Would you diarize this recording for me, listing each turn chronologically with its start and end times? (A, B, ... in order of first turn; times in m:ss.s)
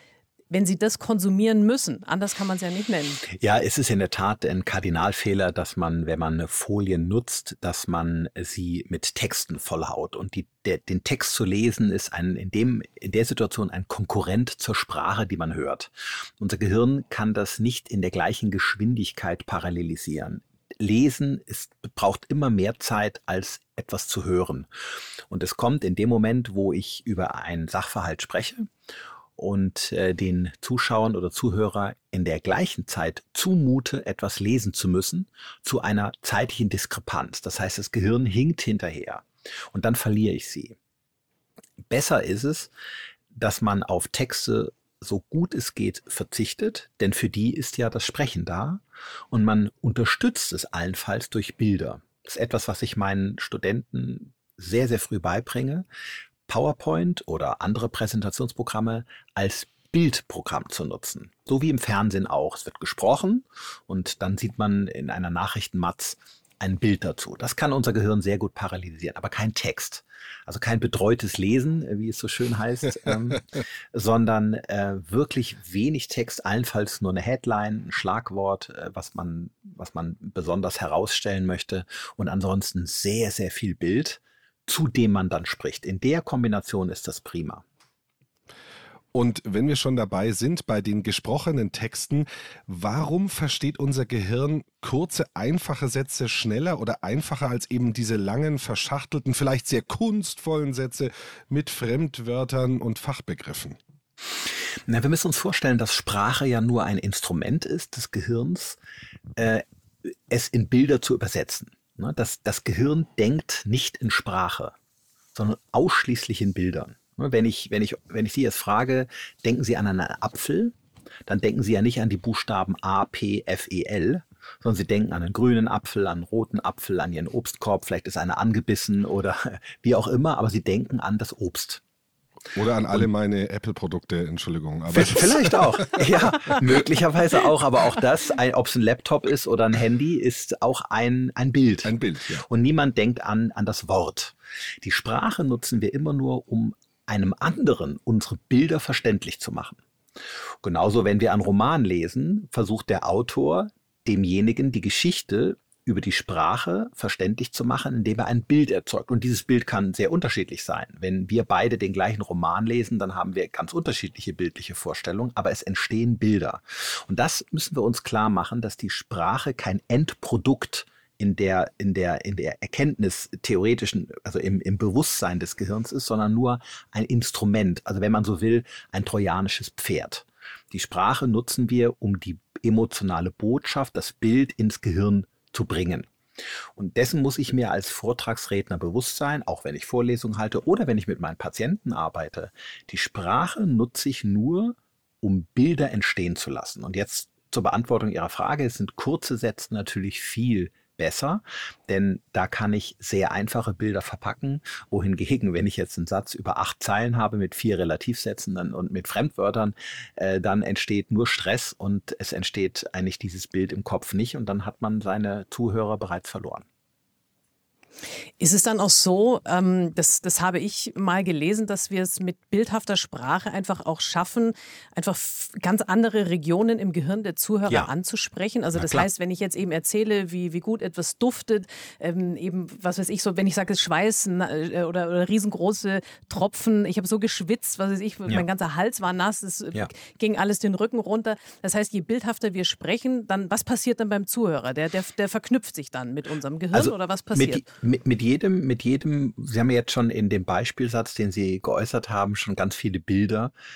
0:00.5-0:03.2 A
0:03.3-0:24.7 B
0:25.3-0:28.7 B
0:29.4-0:40.8 B
0:41.9-0:42.7 B
0:43.3-0:55.8 B
0:56.5-1:27.6 B
1:29.1-1:43.8 C
1:44.9-1:48.8 B
1:49.4-1:54.7 B
1:55.4-2:00.7 B
2:01.3-2:11.8 B
2:12.6-2:16.1 C
2:14.9-2:29.8 B
2:21.8-2:22.4 C
2:30.6-3:06.1 B
3:06.8-3:36.6 B
3:38.4-4:07.6 A
3:48.8-3:49.1 B
4:06.7-4:13.5 B